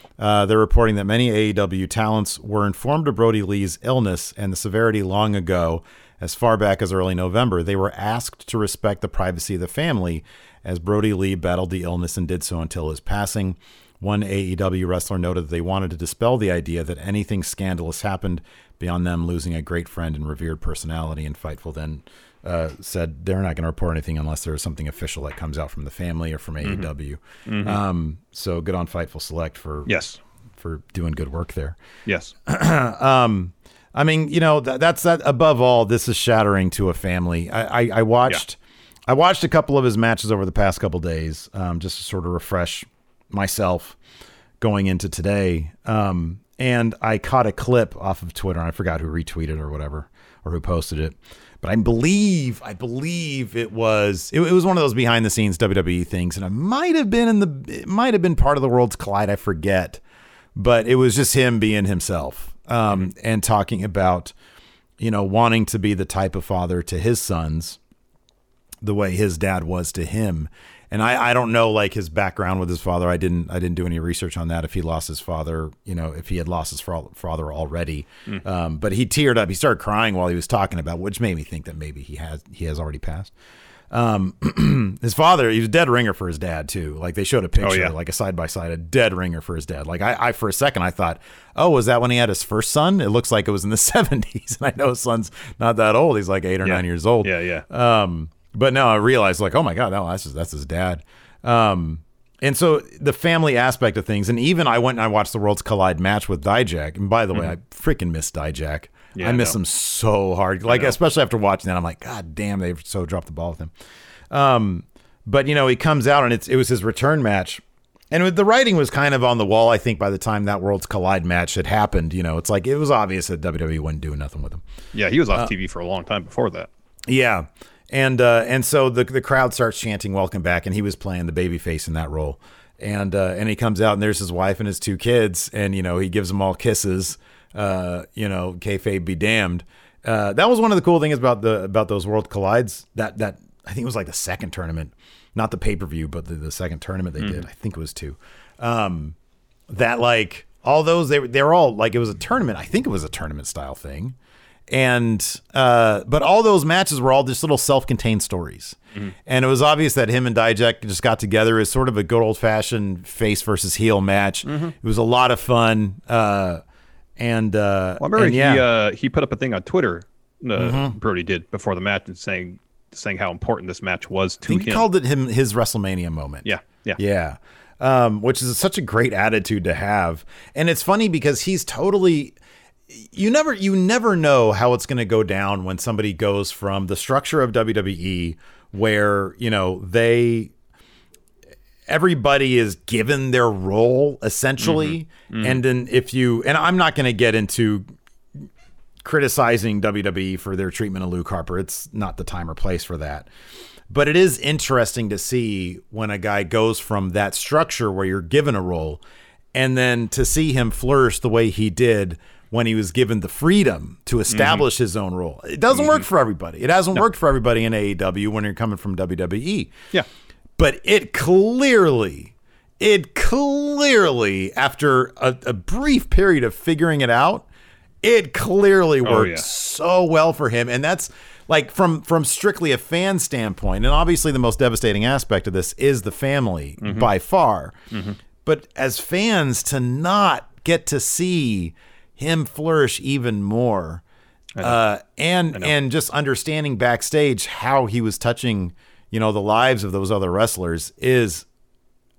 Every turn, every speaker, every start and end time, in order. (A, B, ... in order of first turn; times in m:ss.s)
0:00.2-0:30.0 A
0:26.6-0:26.9 B
0:27.4-0:27.8 B
0:29.9-0:30.2 B
0:30.6-0:31.8 A
0:32.1-0:32.3 B
0:32.5-0:44.0 A
0:44.6-1:00.0 A
1:00.6-1:04.3 A
1:05.0-1:07.8 A
1:08.8-1:23.3 A
1:23.9-1:53.7 A
1:27.6-1:27.9 B
1:36.6-1:37.7 B
1:49.2-1:49.6 B
1:50.7-1:51.0 B
1:54.3-2:04.6 A
2:04.9-2:06.7 B
2:07.1-2:29.2 A
2:29.7-2:34.2 A
2:34.7-2:46.6 A
2:44.5-2:44.7 B
2:47.2-2:48.7 A
2:48.0-2:54.9 B
2:50.6-2:51.0 A
2:54.5-3:02.4 A
2:56.4-2:57.0 B
3:02.9-3:10.5 A
3:11.9-3:17.9 A
3:14.6-3:15.6 B
3:19.0-3:23.3 A
3:23.9-3:29.0 A
3:29.5-3:39.7 A
3:34.3-3:34.7 B
3:35.7-3:36.0 B
3:40.6-3:47.5 A
3:48.0-3:57.7 A
3:49.0-3:49.5 B
3:56.8-3:57.1 B
3:57.9-3:58.2 B
3:58.4-4:04.0 A
4:04.6-4:11.5 A